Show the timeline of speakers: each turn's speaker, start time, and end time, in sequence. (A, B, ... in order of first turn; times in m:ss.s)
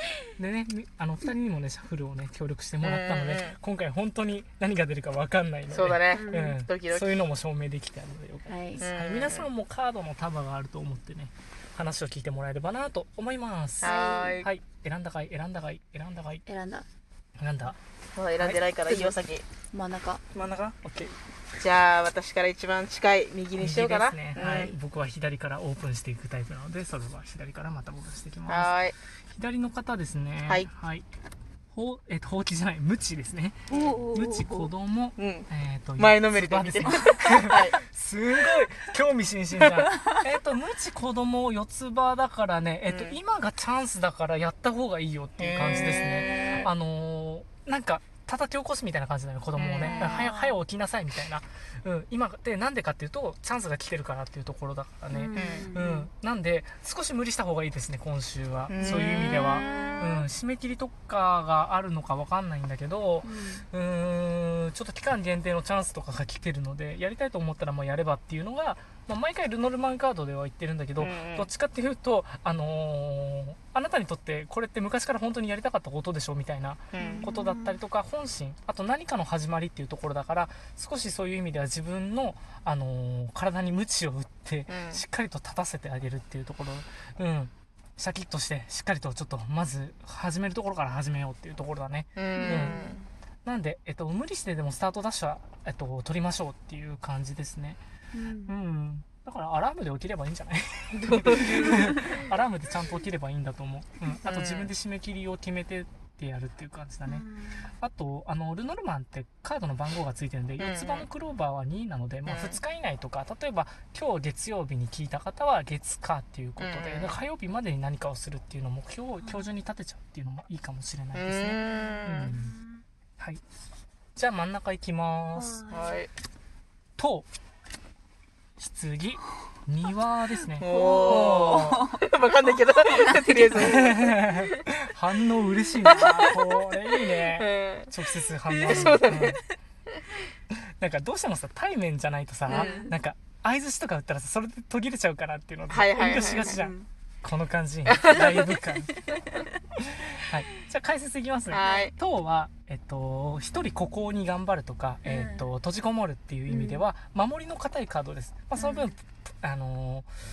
0:00.4-0:16.4 A
0:02.8-0:03.6 B
0:05.7-0:07.2 B
0:06.1-0:06.6 C
0:08.5-0:08.8 C
0:08.8-0:09.5 B
0:13.8-0:14.4 C
0:13.8-0:14.5 B
0:16.5-0:16.9 C
0:17.4-0:17.8 A
0:18.1-0:19.4 B
0:18.4-0:18.6 A
0:19.7-0:20.2 C
0:20.3-0:21.1 A
0:21.6-0:24.7 B
0:23.6-0:28.7 A
0:24.4-0:24.7 C
0:28.5-0:29.0 B
0:29.3-0:31.1 A
0:31.7-1:32.9 A
0:33.7-0:34.0 B
0:33.7-0:34.7 C
0:35.2-0:37.8 B
0:42.9-0:43.2 B
0:45.4-0:46.7 B
0:46.2-0:46.6 C
0:49.6-0:50.3 B
0:49.8-0:50.4 C
0:55.1-0:56.1 C
0:55.3-0:55.8 B
0:58.7-1:00.0 B
0:58.8-1:00.2 C
1:03.2-1:03.7 C
1:11.0-1:11.5 B
1:16.9-1:17.3 B
1:17.0-1:17.8 C
1:24.7-1:25.0 B
1:32.2-1:33.0 B
1:32.3-1:33.0 C
1:33.4-1:37.8 A
1:38.1-1:38.6 C
1:38.4-1:47.2 A
1:41.0-1:42.2 B
1:44.2-1:44.7 B
1:47.0-1:47.7 C
1:47.8-2:02.6 A
1:50.6-1:51.1 B
1:52.3-1:52.6 B
1:56.6-1:57.2 B
2:01.1-2:02.3 B
2:01.7-2:02.8 C
2:04.2-2:05.7 A
2:05.3-2:06.0 C
2:05.7-2:06.1 B
2:07.0-2:07.3 A
2:08.6-2:11.9 A
2:10.6-2:14.6 B
2:10.6-2:14.2 C
2:13.6-2:19.4 A
2:15.8-2:16.4 B
2:17.0-2:17.9 B
2:18.5-2:19.4 B
2:20.5-2:29.2 A
2:22.5-2:22.9 B
2:22.5-2:22.9 C
2:25.7-2:26.7 B
2:26.3-2:26.8 C
2:27.9-2:28.5 B
2:29.2-2:29.5 C
2:29.8-2:40.1 A
2:31.5-2:31.9 B
2:31.6-2:31.9 C
2:35.0-2:35.5 C
2:36.5-2:36.9 C
2:38.6-2:38.9 C